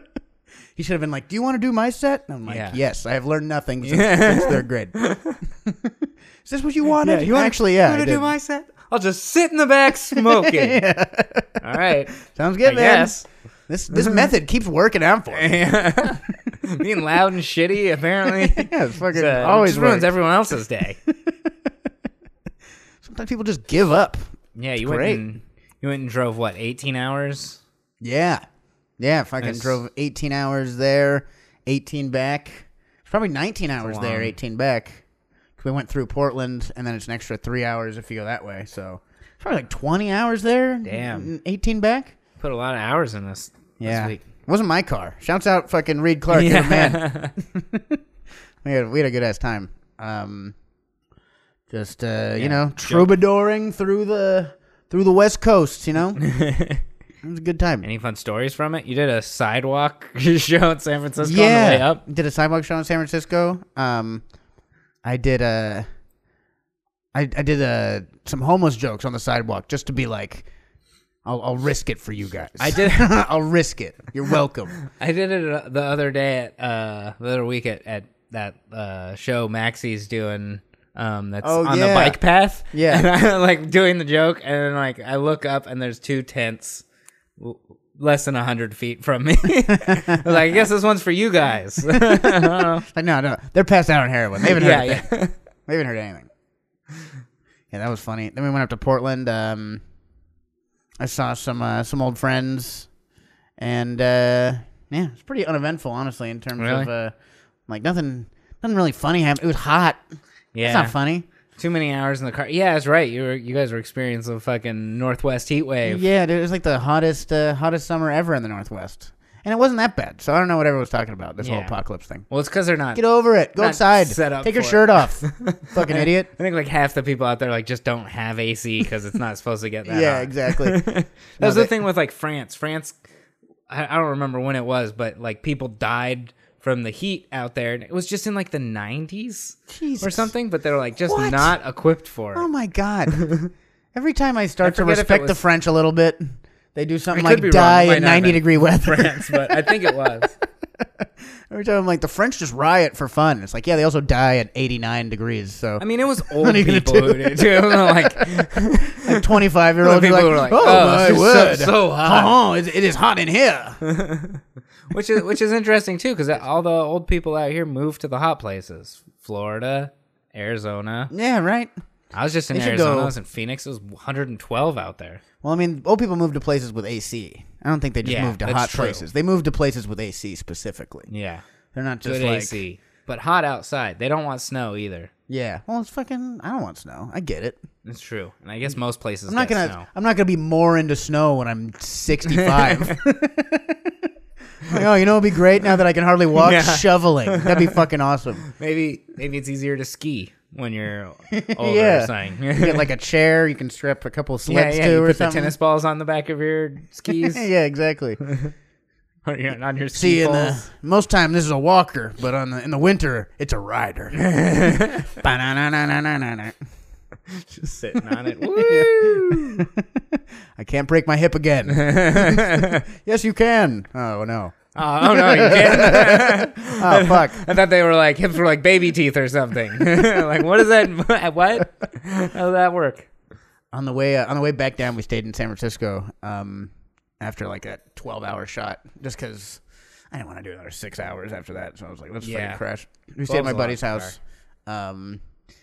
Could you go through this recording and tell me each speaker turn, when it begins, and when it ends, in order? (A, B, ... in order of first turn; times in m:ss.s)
0:00.8-0:05.0 A
0:02.5-0:02.8 B
0:03.8-0:05.4 B
0:05.6-0:08.3 A
0:07.0-0:10.8 B
0:10.1-0:11.6 A
0:11.6-0:13.2 B
0:12.2-0:15.6 A
0:13.9-0:14.3 B
0:15.3-0:21.0 B
0:18.2-0:20.1 A
0:21.1-0:21.3 A
0:23.0-0:24.2 A
0:24.6-0:27.6 B
0:24.8-0:25.2 A
0:28.0-0:28.4 A
0:29.0-0:35.0 A
0:29.4-0:29.8 B
0:33.8-0:34.4 B
0:35.6-0:42.2 A
0:40.8-0:41.3 B
0:42.4-0:44.2 B
0:43.8-0:48.0 A
0:46.3-0:47.3 B
0:48.6-0:50.6 A
0:51.7-0:56.2 A
0:52.4-0:53.1 B
0:56.2-0:56.8 B
0:57.2-0:57.9 A
0:57.8-1:02.0 B
1:01.2-1:04.2 A
1:05.0-1:05.8 A
1:07.1-1:10.5 A
1:11.2-1:14.8 A
1:12.6-1:13.1 B
1:14.8-1:26.8 B
1:21.4-1:22.2 A
1:22.7-1:23.1 A
1:27.4-1:32.8 B
1:29.7-1:30.6 A
1:31.9-1:35.1 A
1:34.5-1:35.3 B
1:35.7-1:36.3 A
1:37.7-1:39.8 A
1:41.0-1:42.9 A
1:43.6-1:47.1 A
1:46.6-1:46.9 B
1:47.7-1:50.0 A
1:50.5-1:50.9 B
1:50.6-1:51.2 A
1:51.6-1:56.0 B
1:55.8-2:02.3 A
2:01.4-2:01.8 B
2:02.3-2:03.0 B
2:03.0-2:06.3 A
2:03.6-2:13.0 B
2:09.9-2:10.8 A
2:11.4-2:11.7 A
2:13.7-2:22.5 B
2:19.7-2:20.3 A
2:21.0-2:21.6 A
2:22.4-2:23.3 A
2:23.9-2:26.2 A
2:24.6-2:25.4 B
2:26.8-2:30.0 A
2:27.1-2:30.3 B
2:30.8-2:43.8 A
2:35.8-2:42.3 B
2:43.8-2:51.1 B
2:51.1-2:51.7 A
2:52.1-2:55.2 B
2:52.5-2:53.1 A
2:55.4-3:01.1 A
2:58.0-2:59.0 B
3:01.1-3:01.4 B
3:01.7-3:02.6 A
3:02.0-3:05.1 B
3:05.3-3:07.6 A
3:07.8-3:09.9 B
3:09.3-3:14.0 A
3:12.3-3:13.0 B
3:14.6-3:18.4 A
3:16.4-3:17.8 B
3:18.5-3:22.9 B
3:21.3-3:25.5 A
3:24.5-3:27.5 B
3:27.1-3:28.2 A
3:28.2-3:28.5 B
3:29.2-3:30.6 B
3:29.9-3:34.3 A
3:34.2-3:35.1 B
3:35.1-3:36.6 A
3:37.3-3:39.7 B
3:38.4-3:47.4 A
3:41.7-3:42.8 B
3:44.8-3:53.1 B
3:53.7-4:05.2 A
4:02.2-4:02.6 B
4:03.3-4:04.2 B